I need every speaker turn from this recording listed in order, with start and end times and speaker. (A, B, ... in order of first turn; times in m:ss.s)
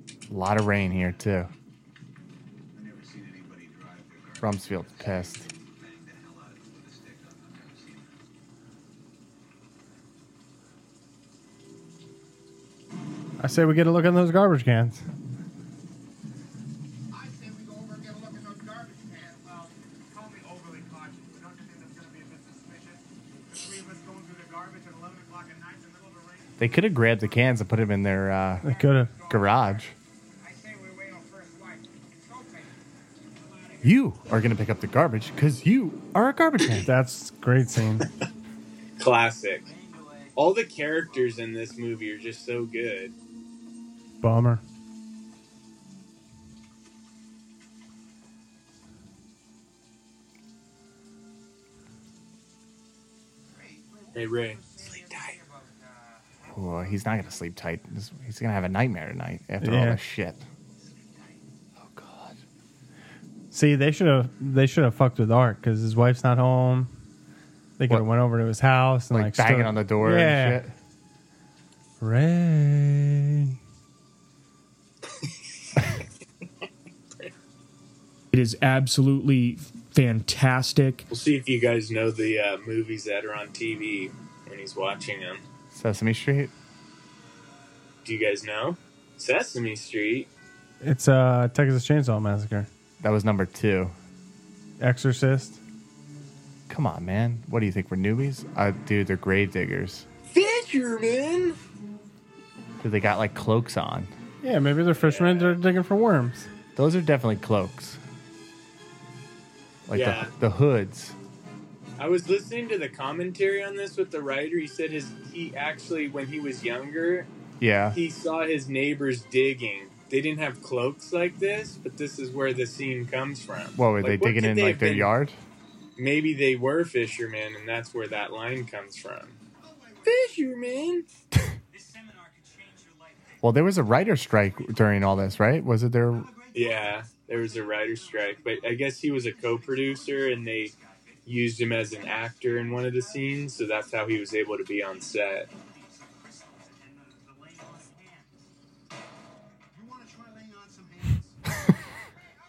0:00.3-0:01.5 A
0:04.4-0:05.5 A
0:13.4-0:15.0 B
0:17.1-0:26.6 C
0:26.6-0:28.7 A
0:28.6-0:29.2 B
0:28.7-0:29.8 C
0:29.3-0:29.9 A
0:30.4-0:32.7 C
0:33.4-0:33.8 C
0:33.8-0:36.9 A
0:36.8-0:38.1 B
0:39.0-0:39.7 D
0:39.7-0:40.3 C
0:40.4-0:43.2 D
0:44.2-0:44.6 B
0:53.6-0:56.4 C
0:54.1-0:55.4 D
0:56.5-1:00.4 A
0:59.6-1:00.0 B
1:01.8-1:02.4 A
1:03.5-1:06.9 B
1:07.8-1:10.6 B
1:09.1-1:10.7 A
1:12.0-1:13.6 B
1:18.3-1:21.1 E
1:21.1-1:25.4 D
1:25.7-1:26.5 A
1:28.0-1:30.3 D
1:30.8-1:32.7 B
1:33.0-1:34.0 A
1:34.8-1:35.6 B
1:36.7-1:40.1 A
1:40.3-1:41.6 D
1:42.8-1:44.1 A
1:44.4-1:46.5 B
1:44.9-1:45.6 D
1:46.8-1:48.0 A
1:49.9-1:51.2 A
1:49.9-1:50.3 D
1:52.0-1:57.3 D
1:57.6-1:58.0 A
1:57.9-2:05.1 D
2:03.8-2:05.4 A
2:06.0-2:09.4 D
2:09.6-2:10.4 C
2:10.0-2:11.1 D
2:11.7-2:13.2 C
2:13.4-2:16.3 A
2:16.5-2:20.7 D
2:21.2-2:25.5 D
2:25.6-2:28.4 C
2:29.7-2:31.5 C